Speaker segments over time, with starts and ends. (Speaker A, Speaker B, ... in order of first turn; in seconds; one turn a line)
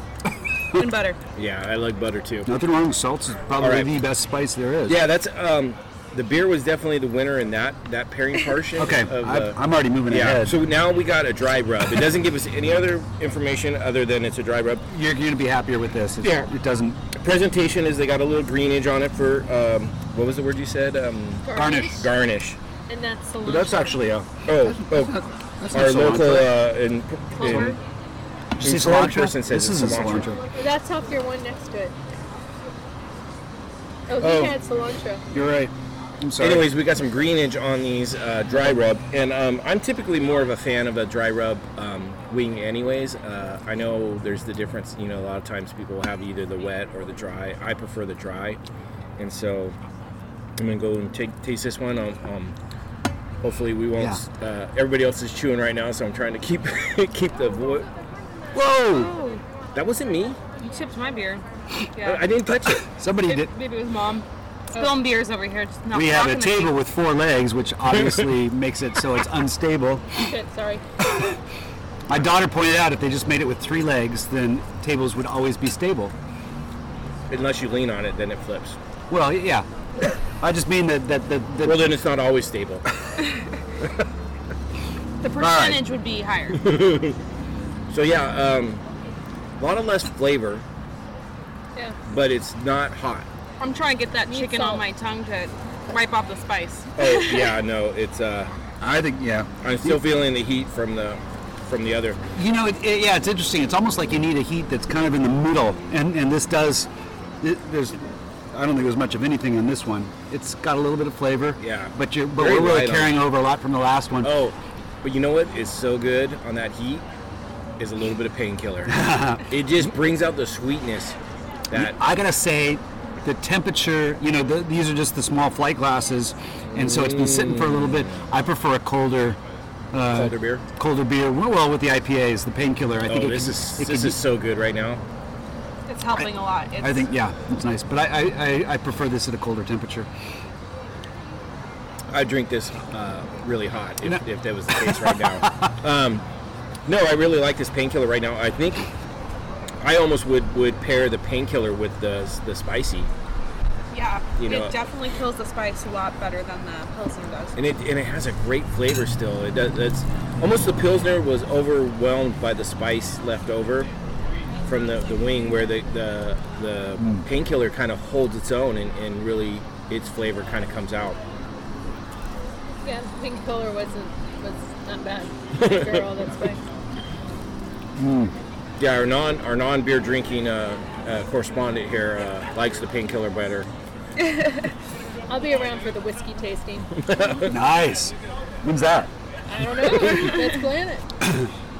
Speaker A: 0.8-1.2
Speaker B: 1.4-2.5
Speaker C: 2.5-5.0
Speaker B: 3.6-3.9
Speaker B: 4.9-14.8
Speaker C: 8.8-10.6
Speaker C: 14.9-17.0
Speaker B: 16.2-16.5
Speaker B: 17.1-22.6
Speaker D: 21.4-22.1
Speaker C: 21.5-22.0
Speaker D: 22.9-24.0
Speaker C: 23.4-26.6
Speaker B: 24.5-25.2
Speaker B: 25.7-27.8
Speaker A: 27.4-27.8
Speaker C: 28.6-30.4
Speaker B: 28.6-30.3
Speaker D: 30.6-31.9
Speaker D: 34.1-35.2
Speaker B: 34.2-34.5
Speaker C: 34.2-34.5
Speaker C: 35.3-36.6
Speaker B: 36.4-48.6
Speaker B: 49.2-49.8
Speaker B: 50.6-52.5
Speaker B: 53.4-57.9
Speaker C: 58.5-59.1
Speaker A: 58.9-59.4
Speaker B: 59.8-60.4
Speaker A: 60.6-61.4
Speaker A: 62.0-62.3
Speaker B: 62.0-62.9
Speaker C: 62.8-63.5
Speaker A: 63.2-66.8
Speaker C: 65.9-70.0
Speaker D: 70.2-70.8
Speaker C: 72.1-76.1
Speaker B: 77.3-78.8
Speaker C: 79.1-79.7
Speaker C: 80.4-81.8
Speaker B: 81.7-82.8
Speaker A: 85.2-86.6
Speaker C: 85.4-85.8
Speaker B: 86.6-87.2
Speaker B: 87.9-88.8
Speaker B: 89.6-90.6
Speaker B: 92.1-93.3
Speaker A: 93.6-97.6
Speaker D: 94.3-94.8
Speaker B: 97.0-98.5
Speaker C: 98.8-100.0
Speaker B: 99.6-102.2
Speaker C: 102.4-106.9
Speaker C: 107.4-114.3
Speaker B: 111.6-113.2
Speaker B: 114.2-117.0
Speaker B: 117.8-119.0
Speaker C: 118.9-119.9
Speaker B: 119.5-121.2
Speaker C: 121.7-129.4
Speaker B: 126.7-128.2
Speaker C: 129.9-134.2
Speaker B: 130.1-130.6
Speaker B: 133.1-135.0
Speaker A: 135.9-137.1
Speaker C: 136.8-140.1
Speaker B: 142.1-146.2
Speaker C: 144.7-145.7
Speaker B: 146.9-148.9
Speaker B: 149.8-153.1
Speaker A: 153.9-157.6
Speaker B: 154.4-154.7
Speaker B: 157.6-163.9
Speaker B: 164.7-171.2
Speaker C: 167.0-167.3
Speaker D: 172.8-176.6
Speaker B: 175.6-176.0
Speaker C: 178.0-178.3
Speaker B: 178.8-183.7
Speaker A: 184.2-184.6
Speaker D: 185.3-187.0
Speaker B: 187.0-187.5
Speaker C: 187.5-189.1
Speaker D: 189.5-191.1
Speaker A: 189.9-190.5